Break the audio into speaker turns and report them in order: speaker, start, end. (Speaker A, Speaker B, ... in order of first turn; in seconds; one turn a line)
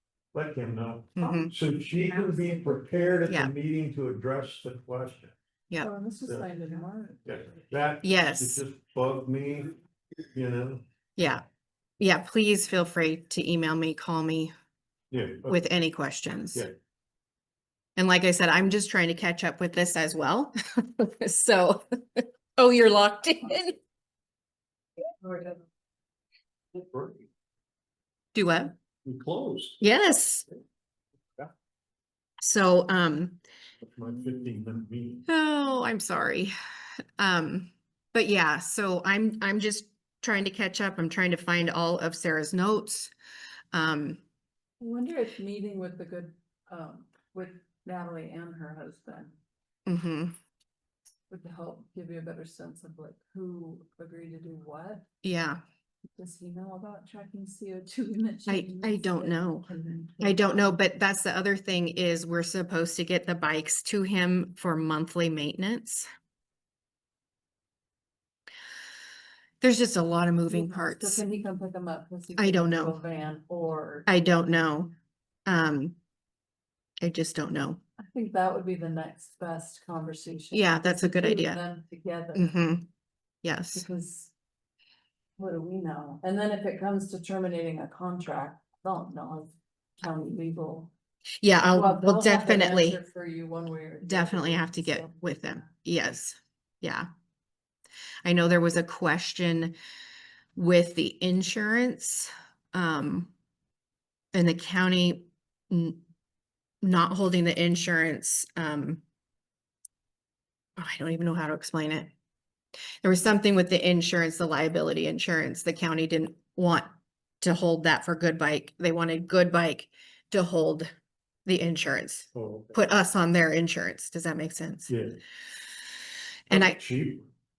Speaker A: 0.3-5.3
Speaker B: 1.2-1.5
Speaker C: 1.2-2.8
Speaker C: 5.8-7.3
Speaker A: 7.2-9.8
Speaker B: 8.0-8.6
Speaker A: 10.3-10.8
Speaker B: 11.2-11.4
Speaker B: 12.0-14.5
Speaker A: 15.1-15.6
Speaker B: 15.5-16.7
Speaker B: 18.0-23.8
Speaker C: 25.2-25.6
Speaker A: 26.8-27.3
Speaker B: 28.3-28.8
Speaker A: 29.0-29.8
Speaker B: 29.8-30.5
Speaker B: 32.4-33.4
Speaker A: 33.9-35.3
Speaker B: 35.3-36.5
Speaker B: 37.2-43.1
Speaker B: 43.7-44.2
Speaker C: 44.8-49.4
Speaker B: 49.9-50.3
Speaker C: 51.3-55.1
Speaker B: 55.2-55.6
Speaker C: 56.2-60.8
Speaker B: 58.5-59.7
Speaker B: 60.2-66.1
Speaker B: 69.6-71.2
Speaker C: 70.5-74.1
Speaker B: 72.4-72.9
Speaker B: 74.1-74.9
Speaker B: 75.5-76.0
Speaker B: 77.0-77.8
Speaker C: 78.0-82.5
Speaker B: 80.5-81.6
Speaker B: 82.3-82.9
Speaker B: 83.4-83.9
Speaker C: 83.8-84.3
Speaker C: 85.4-90.9
Speaker B: 91.4-93.0
Speaker C: 91.7-95.7
Speaker B: 94.0-97.1
Speaker B: 98.2-99.8
Speaker B: 100.5-103.3
Speaker B: 104.3-106.0
Speaker B: 106.8-109.0
Speaker B: 110.8-112.1
Speaker B: 113.0-116.9
Speaker B: 117.4-120.9
Speaker B: 121.5-124.9
Speaker A: 122.3-122.8
Speaker A: 124.9-125.2
Speaker B: 126.5-126.8
Speaker A: 126.5-127.3